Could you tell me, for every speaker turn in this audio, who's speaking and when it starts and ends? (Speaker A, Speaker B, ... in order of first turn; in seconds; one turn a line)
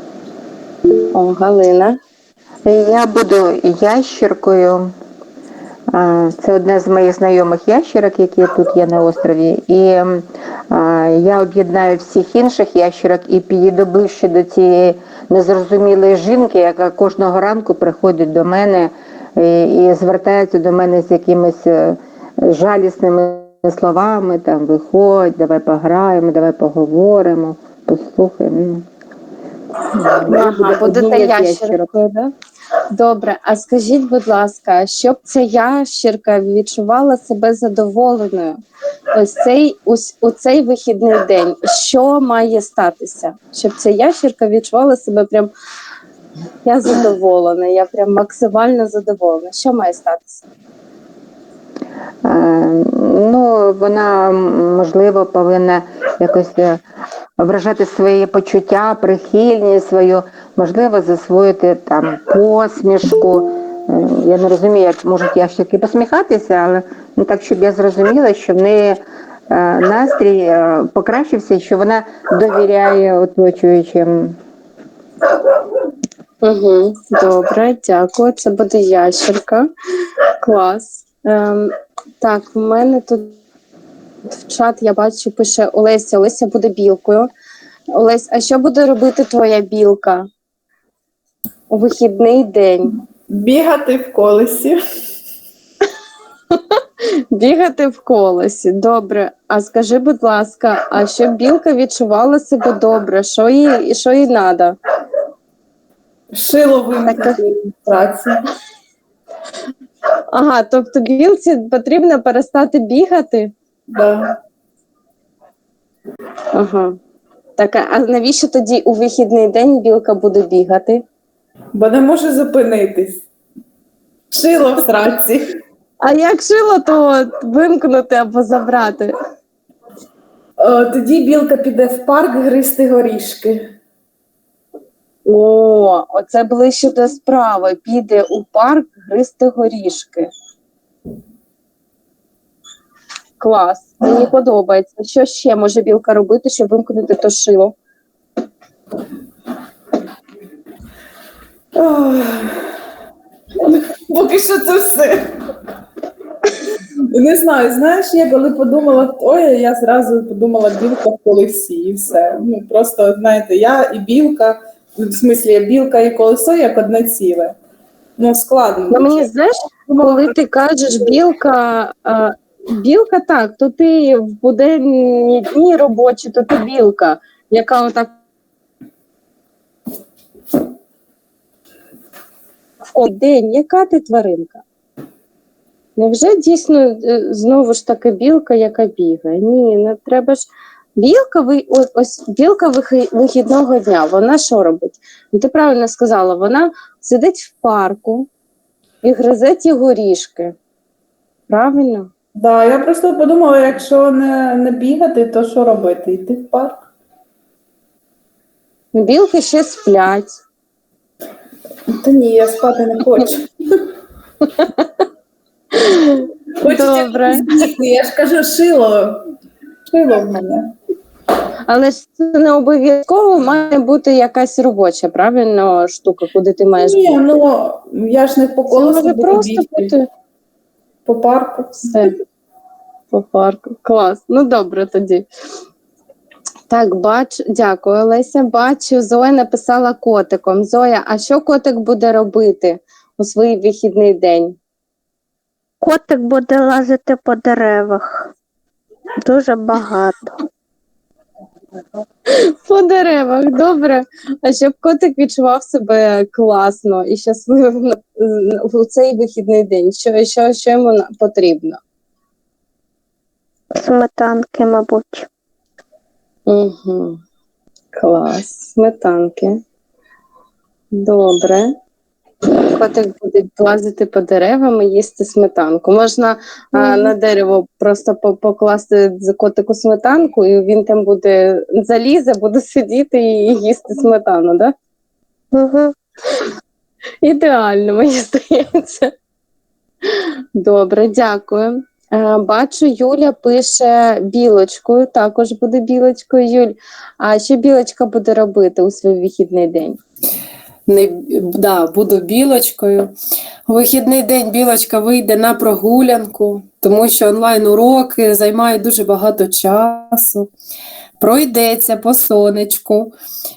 Speaker A: 1.1-2.0
Speaker B: 2.6-5.0
Speaker B: 5.9-28.9
Speaker B: 29.9-31.9
Speaker A: 30.3-32.3
Speaker A: 32.9-38.6
Speaker A: 39.1-45.5
Speaker A: 46.6-50.5
Speaker B: 52.2-56.8
Speaker B: 57.4-74.4
Speaker A: 76.4-79.7
Speaker A: 80.4-83.4
Speaker A: 84.3-87.3
Speaker A: 87.9-90.3
Speaker A: 91.7-92.9
Speaker C: 93.3-94.8
Speaker A: 97.3-104.8
Speaker C: 106.3-108.4
Speaker A: 107.0-107.4
Speaker A: 110.3-113.5
Speaker C: 113.9-114.4
Speaker A: 116.5-117.0
Speaker A: 117.6-121.0
Speaker C: 121.7-123.2
Speaker C: 124.3-125.6
Speaker A: 126.0-129.1
Speaker C: 130.6-133.7
Speaker A: 135.3-140.3
Speaker A: 143.4-147.8
Speaker C: 151.8-152.7
Speaker C: 153.7-155.3
Speaker C: 157.1-167.6
Speaker C: 168.2-169.3
Speaker A: 168.9-178.2
Speaker C: 169.9-170.3
Speaker A: 182.9-184.6
Speaker A: 186.0-190.5
Speaker A: 191.0-198.3
Speaker A: 199.0-200.6
Speaker A: 201.5-202.1
Speaker C: 202.4-206.8
Speaker A: 208.9-210.4
Speaker C: 211.9-213.8
Speaker A: 215.8-217.5
Speaker C: 216.6-219.3
Speaker C: 219.9-220.7
Speaker A: 221.7-227.4
Speaker C: 226.8-229.9
Speaker A: 228.7-230.1
Speaker C: 231.1-231.9
Speaker A: 231.9-232.2
Speaker A: 233.1-235.2
Speaker A: 236.7-244.6
Speaker D: 245.8-248.0
Speaker B: 246.0-248.0
Speaker D: 249.3-250.2
Speaker B: 249.3-249.6
Speaker A: 252.3-261.8
Speaker D: 263.8-265.3
Speaker A: 266.5-267.2
Speaker A: 267.9-269.6
Speaker A: 270.9-271.7
Speaker A: 272.6-284.7
Speaker A: 287.2-289.1
Speaker A: 290.1-300.0
Speaker E: 300.9-303.1
Speaker E: 303.7-310.5
Speaker E: 311.2-313.1